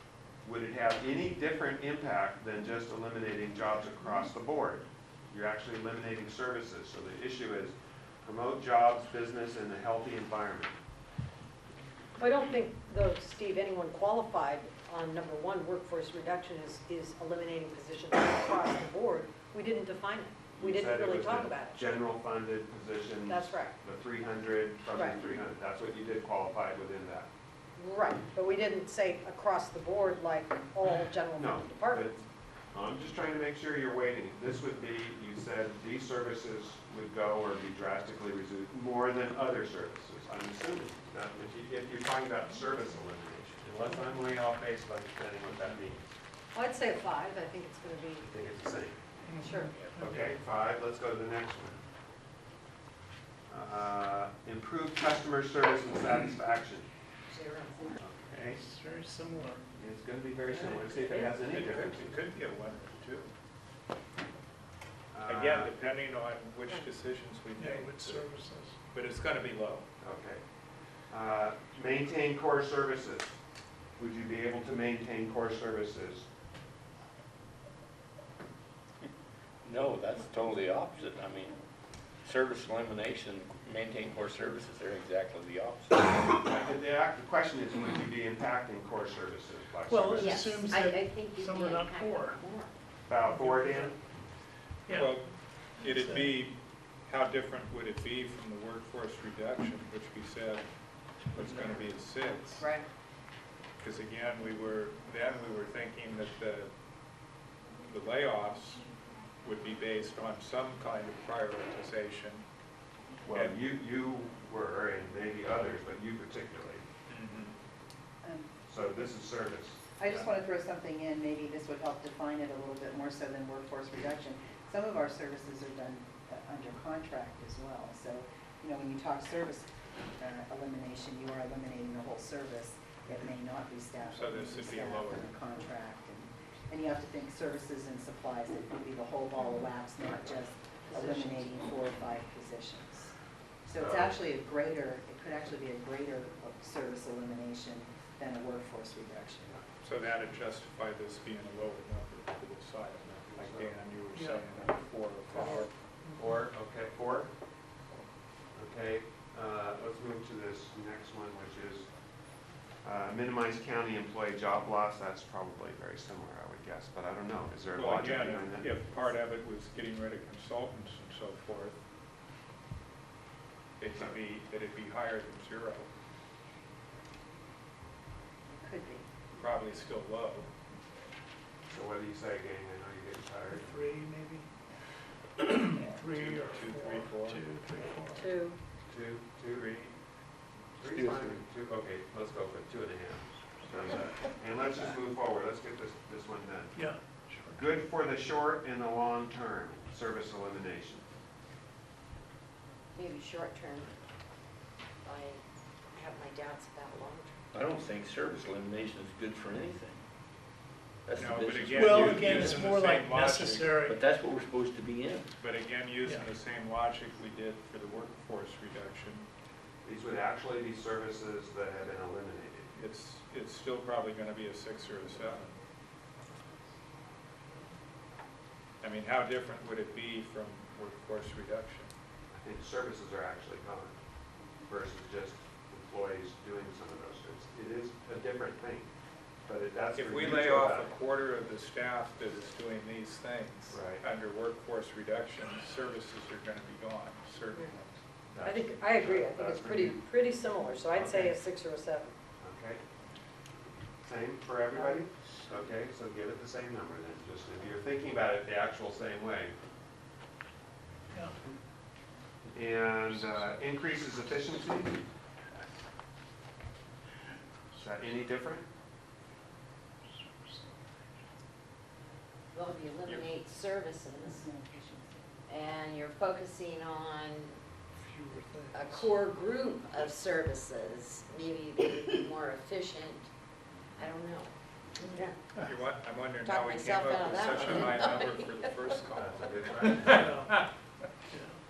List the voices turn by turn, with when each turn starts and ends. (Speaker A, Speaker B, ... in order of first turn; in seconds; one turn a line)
Speaker A: 0.4-10.8
Speaker B: 12.2-21.9
Speaker A: 20.5-27.3
Speaker B: 23.3-23.8
Speaker B: 24.9-25.4
Speaker B: 27.8-32.1
Speaker A: 31.3-46.1
Speaker B: 46.5-48.3
Speaker A: 48.2-49.0
Speaker C: 49.2-50.3
Speaker B: 49.4-49.8
Speaker A: 50.0-51.8
Speaker A: 53.5-56.9
Speaker D: 57.3-58.0
Speaker A: 58.0-58.6
Speaker C: 58.5-59.6
Speaker A: 59.7-62.2
Speaker E: 60.6-63.3
Speaker A: 65.1-65.7
Speaker E: 65.3-68.3
Speaker C: 67.6-68.8
Speaker E: 68.9-69.9
Speaker A: 70.0-70.4
Speaker A: 71.1-73.4
Speaker A: 74.0-76.3
Speaker F: 79.6-81.6
Speaker F: 82.2-86.3
Speaker A: 86.4-90.5
Speaker C: 89.9-92.4
Speaker D: 90.2-92.7
Speaker A: 93.1-94.0
Speaker C: 93.2-94.0
Speaker C: 94.9-96.4
Speaker E: 94.9-102.7
Speaker D: 102.6-102.9
Speaker E: 103.8-106.7
Speaker E: 107.9-108.9
Speaker E: 109.4-112.5
Speaker A: 113.2-116.9
Speaker E: 113.3-113.6
Speaker E: 117.1-117.5
Speaker G: 118.2-118.5
Speaker A: 118.7-119.8
Speaker G: 120.0-143.1
Speaker E: 134.0-135.3
Speaker G: 143.7-149.7
Speaker A: 143.8-144.2
Speaker E: 149.8-155.7
Speaker A: 153.0-153.8
Speaker C: 154.1-154.5
Speaker C: 155.3-156.3
Speaker A: 156.2-157.3
Speaker A: 158.5-161.9
Speaker A: 162.8-168.9
Speaker E: 167.8-171.8
Speaker E: 173.8-175.9
Speaker G: 178.5-179.1
Speaker E: 179.3-180.5
Speaker A: 181.7-183.8
Speaker C: 183.5-184.5
Speaker C: 185.4-188.3
Speaker E: 186.0-187.5
Speaker B: 188.1-188.6
Speaker A: 188.9-190.0
Speaker A: 190.8-201.1
Speaker F: 190.9-191.4
Speaker C: 196.7-197.6
Speaker D: 202.9-203.9
Speaker D: 205.0-205.4
Speaker D: 205.9-207.4
Speaker F: 207.5-210.0
Speaker F: 211.1-212.8
Speaker E: 211.1-213.9
Speaker C: 211.8-214.0
Speaker F: 213.8-215.3
Speaker E: 215.4-219.3
Speaker C: 216.0-216.3
Speaker A: 219.8-222.7
Speaker E: 222.7-225.5
Speaker E: 228.8-231.9
Speaker A: 232.3-234.0
Speaker A: 234.7-238.9
Speaker A: 239.5-241.0
Speaker E: 240.0-248.0
Speaker A: 243.7-244.0
Speaker A: 248.3-250.0
Speaker B: 248.4-252.1
Speaker A: 250.9-251.4
Speaker A: 252.4-252.8
Speaker A: 254.0-259.5
Speaker C: 261.1-261.4
Speaker A: 262.5-265.0
Speaker C: 263.1-263.8
Speaker A: 267.7-268.7
Speaker D: 272.5-274.4
Speaker G: 274.3-275.2
Speaker D: 275.5-277.5
Speaker C: 278.0-279.1
Speaker D: 278.7-283.3
Speaker D: 284.0-285.4
Speaker E: 285.6-290.7
Speaker D: 286.4-288.7
Speaker A: 289.1-290.3
Speaker C: 290.1-290.6
Speaker C: 291.3-291.6